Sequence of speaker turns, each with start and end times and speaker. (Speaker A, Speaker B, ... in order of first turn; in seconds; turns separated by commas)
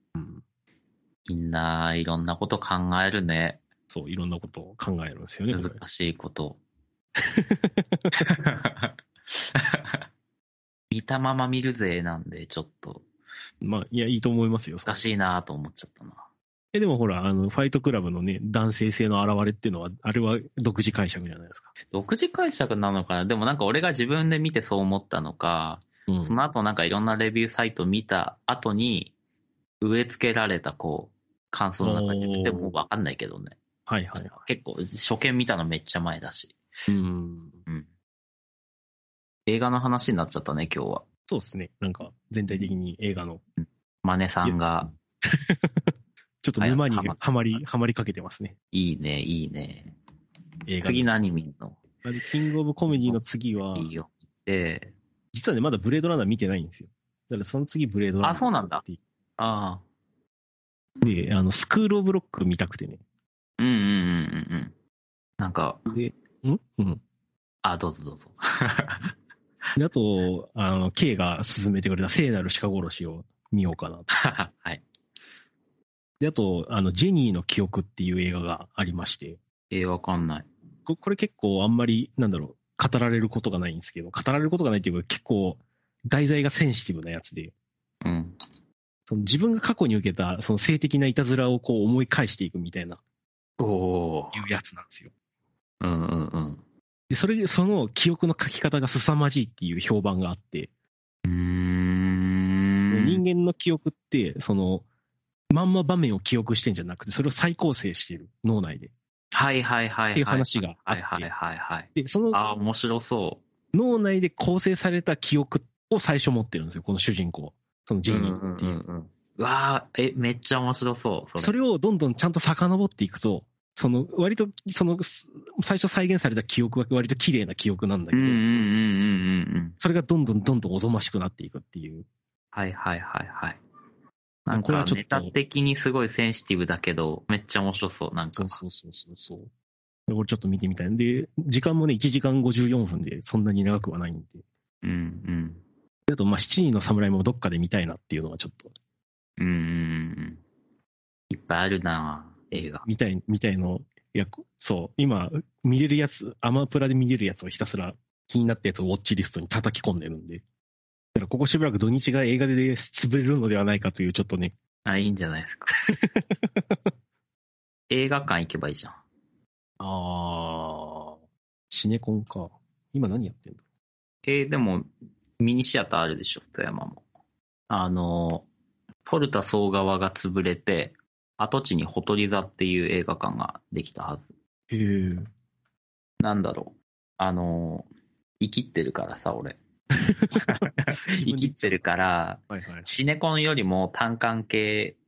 Speaker A: 0.2-0.4, Speaker B: 1.3-3.6, Speaker A: 3.9-5.8, Speaker B: 5.5-6.6, Speaker A: 7.3-8.0, Speaker B: 8.2-10.0, Speaker B: 10.9-13.1, Speaker A: 13.6-15.0, Speaker B: 14.9-16.2, Speaker A: 16.7-21.7, Speaker B: 21.9-29.1, Speaker A: 26.1-26.4, Speaker B: 29.8-33.6, Speaker A: 31.8-32.7, Speaker A: 33.9-34.4, Speaker B: 34.1-36.6, Speaker A: 36.9-37.6, Speaker B: 39.5-41.0, Speaker A: 41.3-43.4, Speaker B: 43.6-44.9, Speaker A: 45.2-48.5, Speaker B: 46.6-47.2, Speaker B: 48.7-49.9, Speaker A: 50.7-51.1, Speaker B: 50.8-51.8, Speaker A: 52.0-53.9, Speaker B: 52.9-53.2, Speaker B: 53.7-54.9, Speaker A: 55.3-59.0, Speaker B: 58.2-58.8, Speaker B: 59.4-59.8, Speaker A: 61.0-63.0, Speaker B: 63.6-64.7, Speaker B: 65.4-65.8, Speaker A: 65.9-67.0, Speaker B: 67.6-69.1, Speaker A: 69.8-74.1, Speaker B: 74.1-74.8, Speaker A: 76.2-79.4, Speaker B: 79.7-80.5, Speaker A: 80.9-87.5, Speaker B: 88.0-88.4, Speaker A: 89.1-93.0, Speaker B: 93.6-94.5, Speaker A: 94.3-95.1, Speaker B: 95.8-96.6, Speaker A: 97.1-100.7, Speaker B: 101.2-103.2, Speaker A: 102.9-104.9, Speaker A: 105.5-108.9, Speaker B: 109.3-113.4, Speaker A: 110.2-111.3, Speaker A: 112.0-112.4, Speaker A: 113.7-118.8, Speaker B: 118.1-121.6, Speaker A: 121.4-128.4, Speaker B: 128.1-129.8, Speaker A: 129.8-132.1, Speaker B: 132.5-133.6, Speaker B: 134.5-138.6, Speaker A: 134.5-135.3, Speaker A: 138.4-139.5, Speaker A: 140.1-144.4, Speaker B: 144.8-145.6, Speaker A: 146.1-148.7, Speaker B: 149.4-150.4, Speaker B: 151.3-152.8, Speaker A: 152.8-160.4, Speaker A: 161.2-164.5, Speaker B: 164.8-165.7, Speaker A: 166.0-166.8, Speaker B: 167.9-169.0, Speaker A: 169.8-171.2, Speaker A: 171.7-173.6, Speaker B: 174.2-174.9, Speaker B: 175.4-177.0, Speaker B: 177.7-178.5, Speaker B: 179.1-184.3, Speaker A: 184.7-185.3, Speaker B: 186.2-187.9, Speaker B: 188.4-189.6, Speaker A: 190.1-190.5, Speaker B: 190.3-195.0, Speaker A: 191.1-191.8, Speaker A: 192.5-192.9